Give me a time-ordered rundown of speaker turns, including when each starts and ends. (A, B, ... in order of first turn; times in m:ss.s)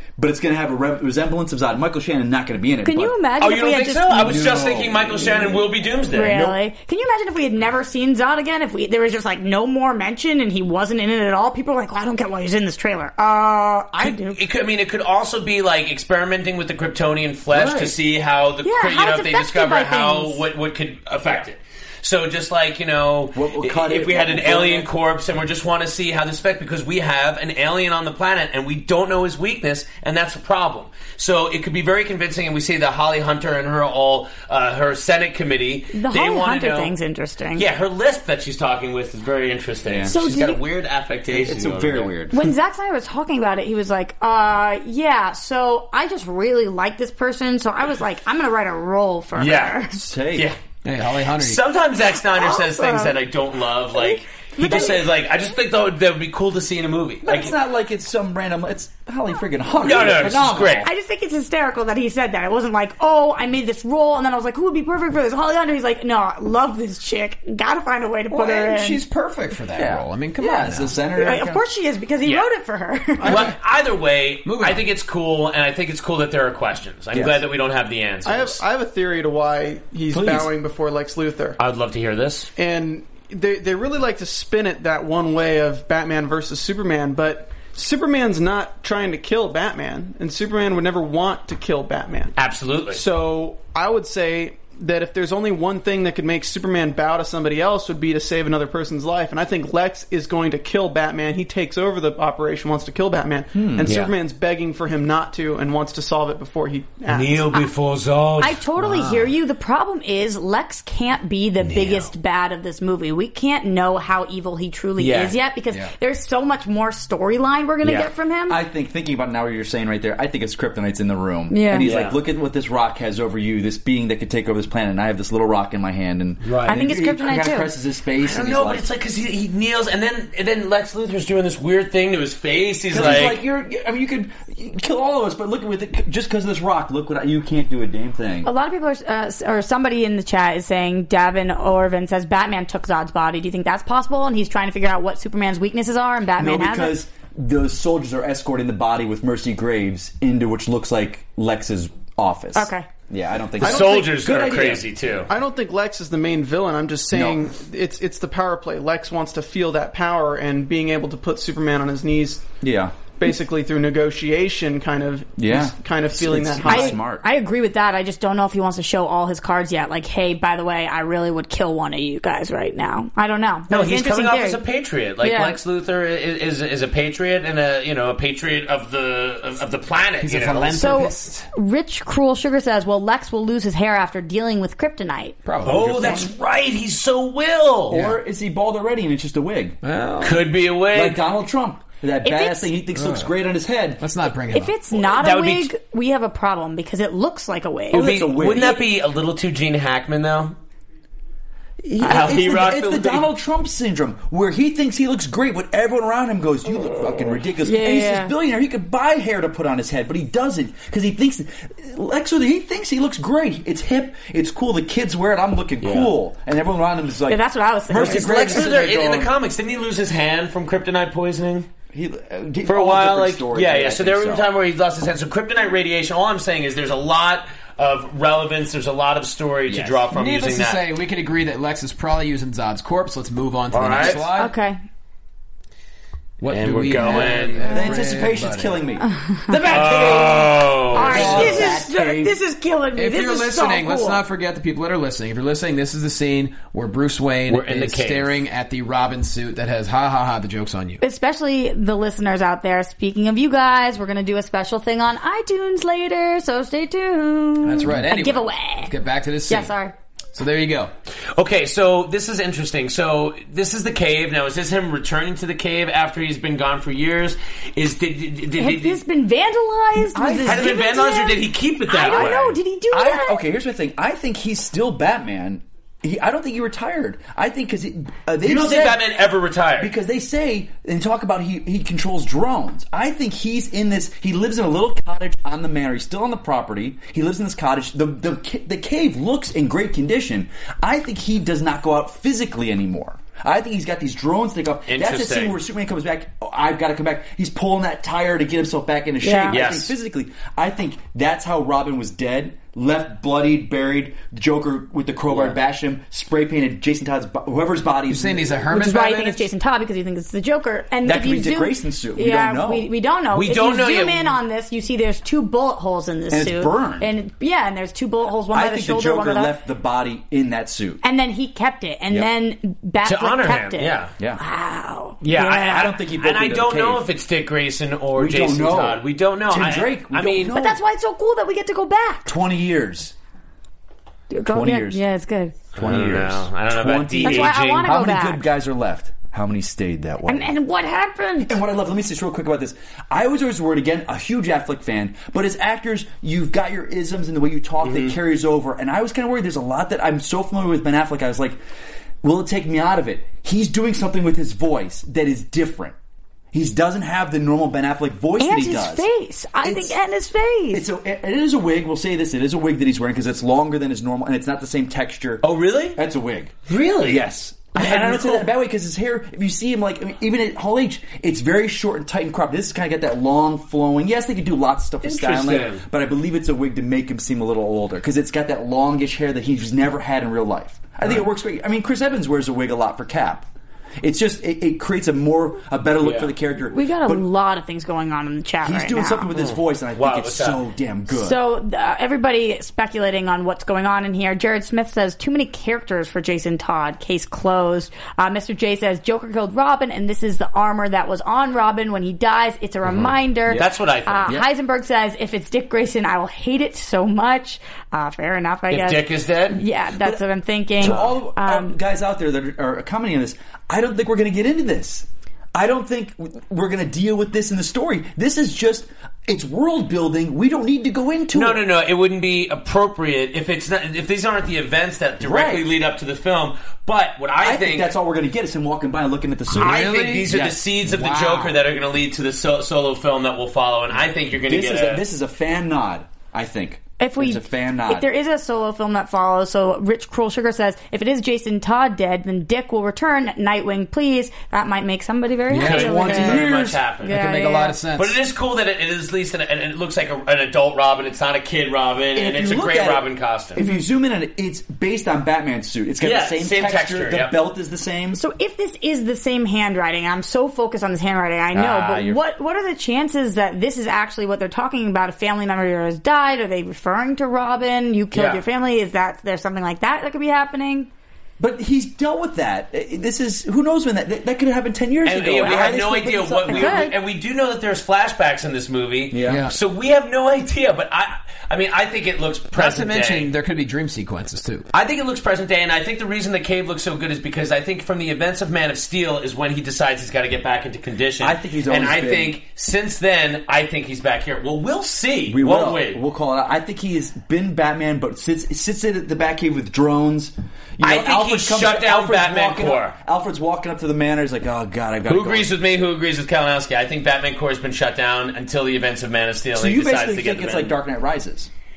0:00.2-0:03.2 A
0:02.8-0:04.3 B
0:03.4-0:06.4 C
0:04.2-0:06.6 A
0:06.1-0:14.4 B
0:14.0-0:36.9 C
0:17.5-0:18.0 A
0:18.6-0:20.4 B
0:23.3-0:24.9 A
0:35.9-0:37.7 B
0:37.6-0:42.1 C
0:39.9-0:40.2 A
0:40.1-0:40.6 B
0:41.3-0:42.5 A
0:42.3-0:50.0 B
0:49.4-0:49.8 C
0:49.9-0:50.5 A
0:50.8-0:51.6 D
0:51.3-0:57.6 C
0:52.2-0:53.2 B
0:53.9-0:55.1 B
0:57.2-1:00.9 A
0:59.8-1:00.9 C
1:00.7-1:09.0 B
1:08.3-1:11.0 D
1:09.8-1:11.6 A
1:11.2-1:13.5 B
1:13.2-1:13.5 E
1:13.2-1:18.6 C
1:14.4-1:14.8 D
1:17.1-1:17.4 A
1:18.2-1:21.6 E
1:20.1-1:20.5 A
1:21.6-1:22.5 C
1:22.6-1:32.3 E
1:32.4-1:33.0 C
1:32.9-1:47.5 E
1:43.5-1:43.9 A
1:43.8-1:44.1 C
1:47.1-1:48.6 C
1:48.4-1:58.6 B
1:48.8-1:49.3 D
1:51.6-1:52.1 C
1:55.0-1:55.4 C
1:57.8-1:58.1 C
1:58.5-2:08.9 A
2:01.5-2:01.9 B
2:01.8-2:02.2 C
2:06.4-2:06.8 C
2:06.7-2:07.7 B
2:08.2-2:13.4 C
2:12.9-2:18.5 A
2:18.4-2:27.0 B
2:26.4-2:34.9 A
2:32.6-2:32.9 B
2:33.6-2:35.3 C
2:33.6-2:34.1 E
2:35.3-2:42.4 E
2:37.1-2:37.4 A
2:42.6-2:43.0 A
2:43.2-2:47.0 E
2:45.4-2:47.2 A
2:46.6-2:54.6 B
2:53.7-3:00.9 C
2:55.2-2:55.6 B
3:00.2-3:01.5 D
3:00.8-3:05.4 B
3:05.5-3:06.3 D
3:05.6-3:08.0 C
3:06.0-3:06.3 B
3:07.9-3:09.8 A
3:07.9-3:08.2 D
3:09.8-3:10.5 D
3:10.2-3:11.2 C
3:10.9-3:14.0 A
3:12.2-3:12.7 B
3:12.9-3:13.3 D
3:14.0-3:14.8 D
3:14.5-3:18.8 B
3:15.1-3:15.7 C
3:17.9-3:18.8 A
3:17.9-3:20.6 C
3:21.8-3:39.3 A
3:22.0-3:23.3 C
3:27.6-3:28.3 B
3:35.8-3:36.1 C
3:37.3-3:38.7 B
3:37.9-3:41.7 C
3:41.9-3:44.5 A
3:42.7-3:50.8 C
3:49.7-3:50.0 A
3:50.1-3:54.5 D
3:53.7-3:54.2 C
3:54.3-3:54.8 B
3:56.4-3:58.8 D
3:56.5-3:57.9 C
3:57.2-4:02.4 A
3:59.1-3:59.6 B
3:59.6-4:01.7 C
4:00.9-4:04.2 B
4:01.0-4:01.8 D
4:03.0-4:11.0 D
4:07.5-4:08.4 C
4:11.0-4:18.9 B
4:17.6-4:19.7 D
4:19.5-4:20.0 B
4:20.3-4:20.9 D
4:21.3-4:29.0 C
4:28.6-4:33.4 B
4:30.1-4:31.0 A
4:30.4-4:32.6 C
4:32.1-4:32.4 A
4:32.9-4:39.1 A
4:38.4-4:39.9 C
4:39.8-5:08.6 A
4:54.9-4:55.6 C
4:59.2-4:59.6 B
4:59.5-4:59.9 C
5:05.3-5:05.6 C
5:08.1-5:09.5 D
5:08.7-5:19.5 B
5:11.0-5:12.9 A
5:13.3-5:14.4 C
5:16.3-5:17.1 A
5:18.5-5:21.0 A
5:21.0-5:25.9 B
5:23.0-5:24.1 C
5:25.2-5:30.6 C
5:25.6-5:27.1 A
5:28.2-5:30.8 A
5:30.5-5:32.3 B
5:32.3-5:33.1 A
5:34.3-5:35.6 B
5:34.5-5:35.0 A
5:35.8-5:37.9 C
5:35.8-5:40.5 A
5:37.2-5:38.5 B
5:40.3-5:41.6 B
5:41.4-5:51.6 A
5:47.8-5:48.2 C
5:52.2-5:56.0 A
5:56.5-5:59.1 A
5:58.4-6:00.9 B
5:59.6-6:00.0 A
6:00.7-6:23.5 A
6:05.4-6:06.0 C
6:06.7-6:08.5 C
6:15.0-6:15.8 C
6:24.0-6:27.2 A
6:26.0-6:26.3 C
6:26.7-6:29.3 B
6:28.6-6:31.4 A
6:29.4-6:30.6 C
6:31.1-6:51.8 B
6:43.5-6:44.3 C
6:48.7-6:49.6 C
6:50.8-7:01.6 A
6:50.8-6:51.1 C
7:01.3-7:08.0 C
7:05.2-7:05.7 A
7:07.4-7:10.6 A
7:09.6-7:10.3 D
7:09.6-7:15.0 C
7:10.8-7:11.6 D
7:14.5-7:18.1 A
7:17.0-7:26.4 B
7:25.5-7:26.4 D
7:25.5-7:27.2 C
7:25.7-7:26.8 A
7:27.0-7:27.8 B
7:27.1-7:28.2 D
7:28.0-7:33.6 C
7:32.2-7:38.2 A
7:33.6-7:33.9 B
7:36.0-7:37.4 C
7:38.1-7:50.9 B
7:41.6-7:42.0 A
7:41.6-7:42.1 C
7:48.1-7:48.4 C
7:51.4-7:56.9 A
7:55.0-8:03.3 C
7:55.4-7:55.8 B
7:56.5-7:57.0 B
7:59.1-7:59.5 A
7:59.3-7:59.5 D
8:02.5-8:04.7 D
8:04.7-8:16.0 C
8:11.2-8:12.4 A
8:15.3-8:25.5 A
8:20.8-8:23.0 C
8:25.1-8:30.8 C
8:29.5-8:31.5 A